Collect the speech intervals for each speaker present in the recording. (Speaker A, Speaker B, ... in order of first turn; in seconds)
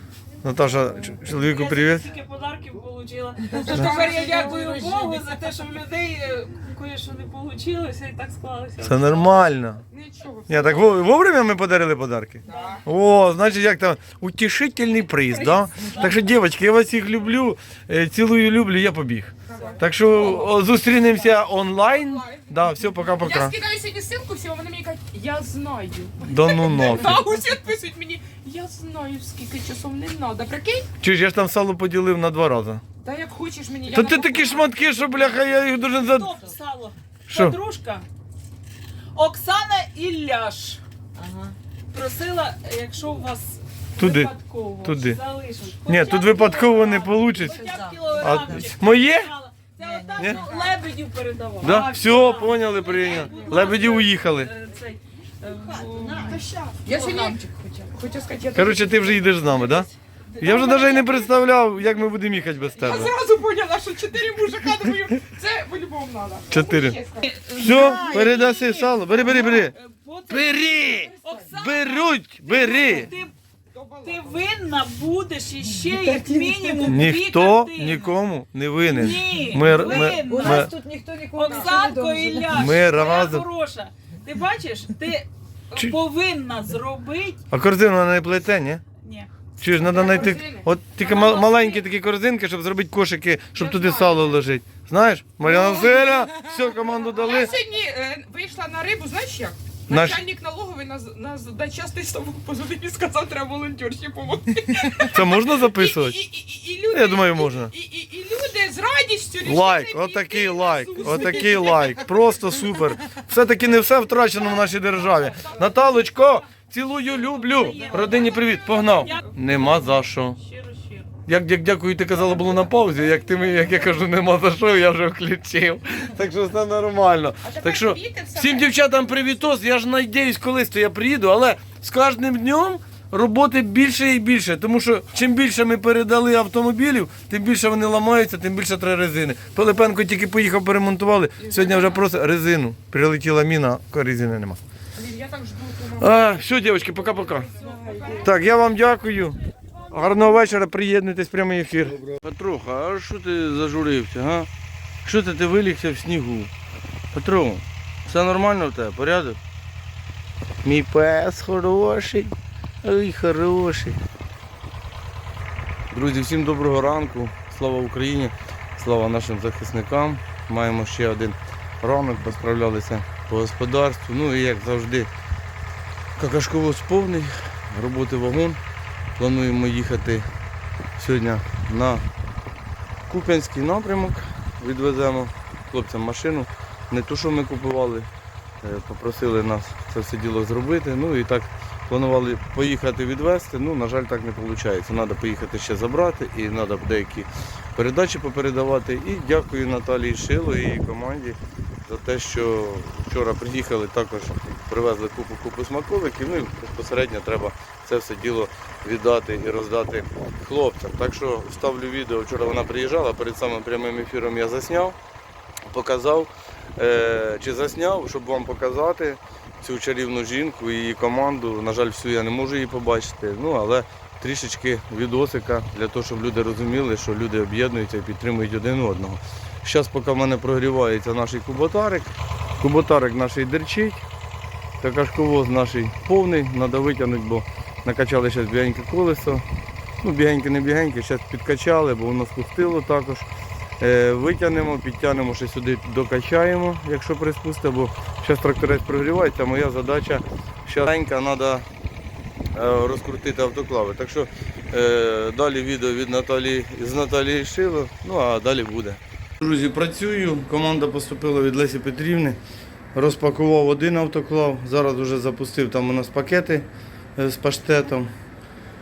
Speaker A: 0.4-2.1, 8.8-9.8, 10.5-23.6, 26.2-27.2, 31.0-32.8, 33.9-36.4, 37.3-37.6, 44.0-44.3, 44.8-45.2, 45.9-47.6, 48.2-49.3, 50.2-50.4, 51.6-54.5, 58.5-59.9, 60.4-63.1, 66.5-67.0, 67.5-69.7, 70.3-73.1, 76.8-80.7, 82.5-83.5, 87.5-88.8, 89.6-97.5, 99.9-100.2, 105.1-106.2, 106.9-107.7, 109.5-120.4, 121.3-144.6, 146.0-147.5, 148.2-154.5, 155.1-156.5, 157.1-159.4, 160.6-164.0, 165.9-175.1, 176.2-178.6, 179.2-180.3, 181.0-182.1, 183.1-188.1, 188.6-215.0, 215.7-234.0, 234.8-239.4, 240.0-243.3, 243.8-251.7, 252.5-262.4, 262.9-268.1
Speaker B: 1.3-9.4, 12.5-12.8, 15.3-16.2, 35.9-38.1, 39.1-40.8, 41.9-57.4, 59.5-59.8, 60.4-61.3, 67.3-70.7, 71.2-73.3, 74.0-78.1, 78.8-80.8, 81.3-87.4, 89.0-89.3, 91.0-91.8, 117.5-121.1
Speaker C: 3.6-5.2, 9.9-11.0, 12.4-12.8, 19.5-22.5, 23.1-30.9, 33.0-35.4, 53.2-53.6, 55.5-59.3, 62.8-68.2, 71.1-71.3, 73.7-74.5, 76.0-76.8, 81.5-81.8, 89.8-90.7, 93.6-94.3, 95.4-96.3, 97.1-112.1, 115.0-116.4, 117.7-118.1, 127.4-128.9, 141.4-142.0, 145.0-148.4
Speaker D: 41.2-41.5, 47.5-48.5, 49.8-50.4, 80.1-82.5